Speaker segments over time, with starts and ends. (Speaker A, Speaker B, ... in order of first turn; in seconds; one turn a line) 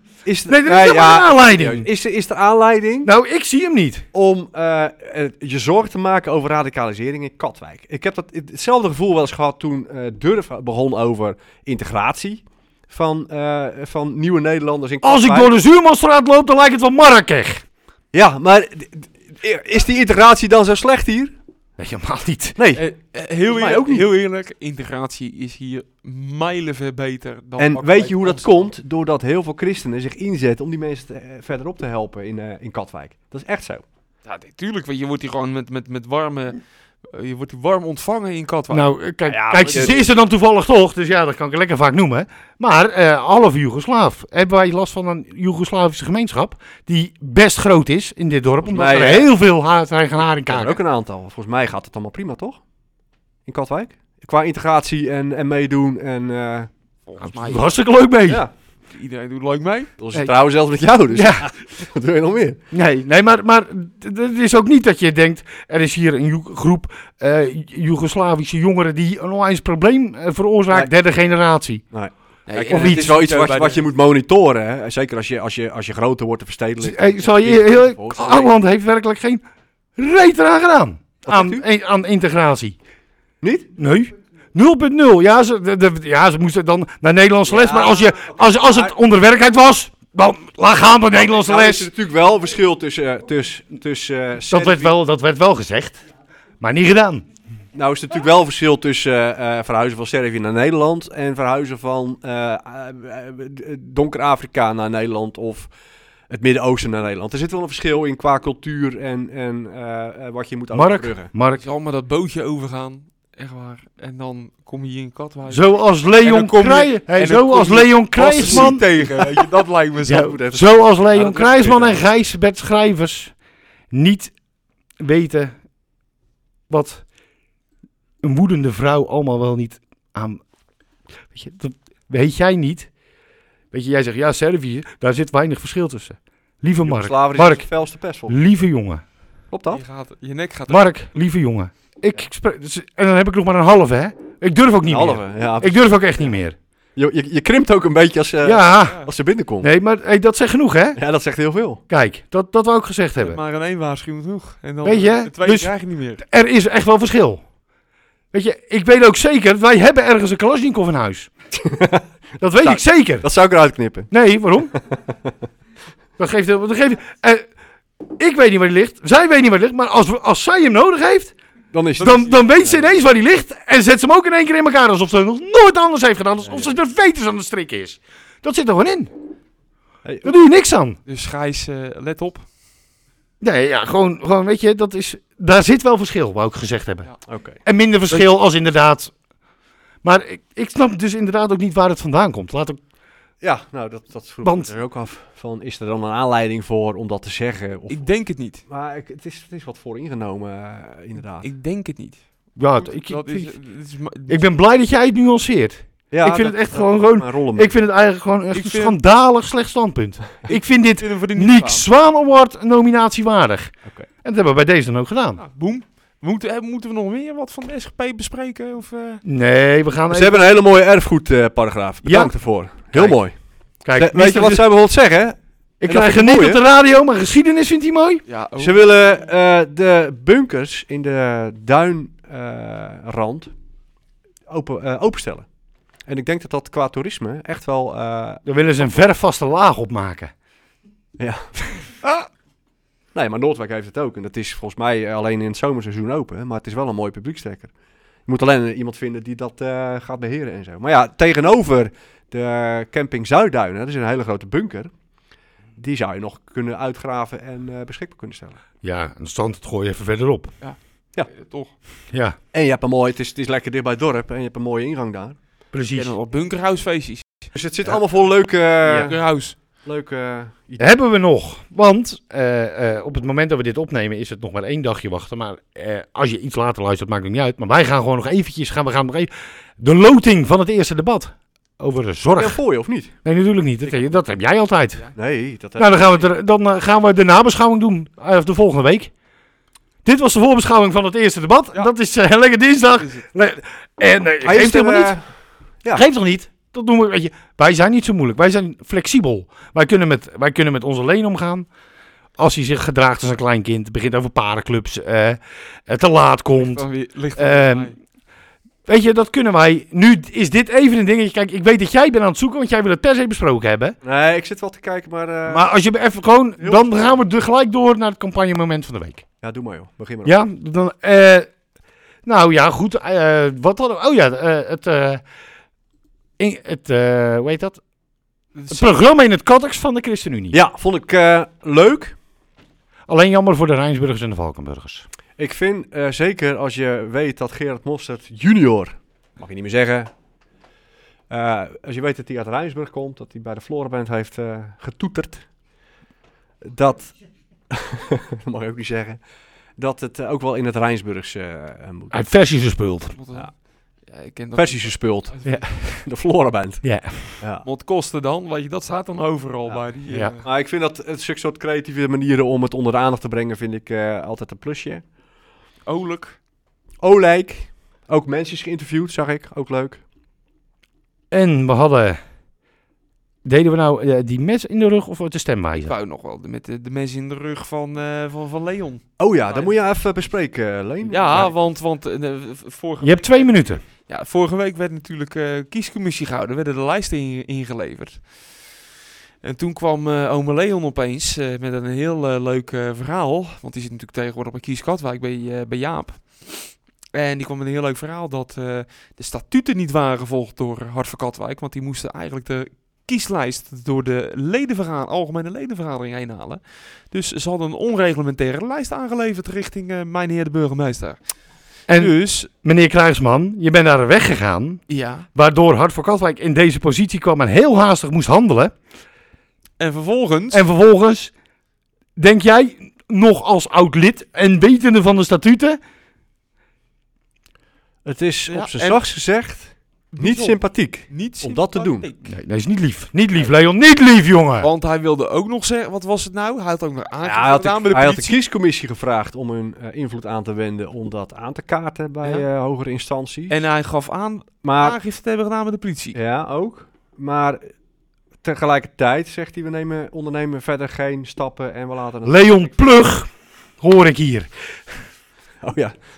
Speaker A: 0.2-3.1
Speaker B: 0.5-1.9
Speaker B: 3.0-4.0
Speaker A: 4.1-15.5
Speaker B: 15.0-17.6
Speaker A: 18.1-21.3
Speaker B: 21.8-22.6
Speaker A: 22.6-22.8
Speaker C: 22.8-28.6
Speaker A: 23.4-24.1
Speaker A: 27.6-33.8
Speaker C: 34.3-38.9
Speaker B: 38.7-50.8
Speaker A: 39.3-40.1
Speaker A: 48.6-49.3
Speaker A: 50.5-52.6
Speaker A: 53.5-56.7
Speaker C: 57.1-57.7
Speaker B: 57.2-58.5
Speaker A: 58.3-58.5
Speaker C: 58.9-59.9
Speaker A: 60.0-62.6
Speaker B: 61.1-61.5
Speaker B: 62.7-71.8
Speaker A: 71.9-78.5
Speaker C: 72.5-73.8
Speaker B: 72.7-73.1
Speaker B: 76.8-79.4
Speaker B: 80.0-82.8
Speaker A: 81.2-81.6
Speaker A: 83.4-83.7
Speaker B: 83.8-91.9
Speaker A: 87.5-89.0
Speaker A: 91.1-95.0
Speaker B: 94.5-96.0
Speaker B: 96.6-97.2
Speaker A: 97.7-105.7
Speaker A: 106.3-111.3
Speaker B: 110.7-111.6
Speaker C: 111.6-115.7
Speaker B: 115.5-118.8
Speaker C: 116.2-120.3
Speaker A: 118.4-119.5
Speaker B: 120.1-123.3
Speaker A: 120.1-122.0
Speaker B: 123.9-124.3
Speaker B: 125.0-125.5
Speaker B: 126.7-127.0
Speaker B: 128.2-130.4
Speaker B: 131.3-132.9
Speaker B: 133.7-137.7
Speaker A: 136.8-138.4
Speaker B: 138.3-139.0
Speaker A: 139.5-139.8
Speaker C: 139.7-140.8
Speaker B: 140.7-146.6
Speaker A: 144.9-146.4
Speaker A: 147.0-149.7
Speaker B: 148.4-149.0
Speaker B: 149.6-151.0
Speaker A: 151.0-151.8
Speaker B: 151.9-153.4
Speaker C: 153.2-156.2
Speaker B: 154.8-157.4
Speaker B: 158.3-161.3
Speaker A: 161.6-162.1
Speaker B: 162.4-163.3
Speaker A: 162.6-164.1
Speaker B: 164.1-164.7
Speaker A: 164.7-165.3
Speaker B: 166.2-167.5
Speaker B: 168.2-171.3
Speaker A: 171.7-173.0
Speaker B: 172.0-179.1
Speaker A: 176.4-176.8
Speaker A: 180.0-180.3
Speaker B: 180.2-181.0
Speaker C: 181.1-182.5
Speaker B: 183.4-187.1
Speaker A: 187.3-187.6
Speaker B: 187.6-189.1
Speaker B: 190.0-192.8
Speaker A: 193.4-198.1
Speaker B: 194.4-194.7
Speaker C: 197.9-198.6
Speaker A: 198.7-201.5
Speaker C: 201.4-204.4
Speaker B: 202.6-203.5
Speaker B: 204.3-215.4
Speaker A: 206.1-207.7
Speaker C: 208.5-209.0
Speaker C: 210.5-211.8
Speaker C: 215.4-219.2
Speaker B: 219.2-220.4
Speaker A: 220.1-223.3
Speaker B: 222.0-223.2
Speaker B: 223.8-224.7
Speaker A: 223.9-226.6
Speaker B: 225.8-228.2
Speaker C: 228.3-228.8
Speaker A: 228.6-233.5
Speaker A: 234.5-235.5
Speaker A: 236.1-239.0
Speaker B: 238.5-240.3
Speaker A: 241.2-241.5
Speaker A: 243.1-247.7
Speaker A: 248.3-254.9
Speaker A: 255.8-258.6
Speaker B: 258.8-260.6
Speaker C: 260.6-261.7
Speaker B: 262.1-262.4
Speaker A: 262.5-265.4
Speaker B: 265.7-266.1
Speaker C: 265.9-267.5
Speaker A: 267.5-270.9
Speaker C: 269.0-269.6
Speaker B: 270.8-282.6
Speaker A: 282.4-283.1
Speaker B: 283.2-285.1
Speaker A: 285.1-286.3
Speaker B: 285.8-289.1
Speaker B: 290.1-295.1
Speaker A: 294.4-295.3
Speaker B: 295.9-301.7
Speaker B: 302.4-306.8
Speaker C: 306.6-307.9
Speaker B: 307.4-307.9
Speaker B: 308.9-314.0
Speaker A: 314.0-315.7
Speaker B: 315.5-319.2
Speaker A: 316.6-317.2
Speaker A: 319.4-320.4
Speaker B: 320.2-321.5
Speaker B: 322.3-325.2
Speaker B: 326.4-327.8
Speaker C: 328.6-329.0
Speaker B: 328.7-330.6
Speaker A: 330.5-332.2
Speaker B: 333.1-335.1
Speaker A: 335.4-340.1
Speaker A: 341.3-345.5
Speaker A: 346.6-347.1
Speaker A: 347.7-349.2
Speaker A: 349.8-352.2
Speaker B: 352.1-353.2
Speaker C: 353.1-355.7
Speaker A: 354.6-356.9
Speaker B: 355.4-356.0
Speaker B: 356.8-357.4
Speaker A: 357.4-357.7
Speaker C: 357.6-360.5
Speaker B: 360.1-360.4
Speaker A: 360.4-365.0
Speaker C: 365.9-366.4
Speaker A: 367.0-370.0
Speaker B: 371.3-372.2
Speaker B: 373.4-375.9
Speaker C: 375.8-379.7
Speaker A: 379.2-381.6
Speaker C: 381.1-388.7
Speaker B: 383.0-383.8
Speaker C: 389.4-411.3
Speaker B: 411.9-418.7
Speaker C: 411.9-412.5
Speaker C: 414.9-415.3
Speaker C: 419.8-420.6
Speaker B: 420.5-421.3
Speaker B: 422.2-425.8
Speaker A: 428.1-432.1
Speaker C: 428.5-429.0
Speaker C: 430.1-432.3
Speaker B: 432.3-434.7
Speaker C: 434.6-438.4
Speaker A: 437.2-443.6
Speaker C: 443.5-446.2
Speaker A: 444.6-445.0
Speaker A: 446.1-447.7
Speaker A: 448.4-452.7
Speaker B: 452.2-453.3
Speaker B: 453.8-454.5
Speaker A: 455.6-455.9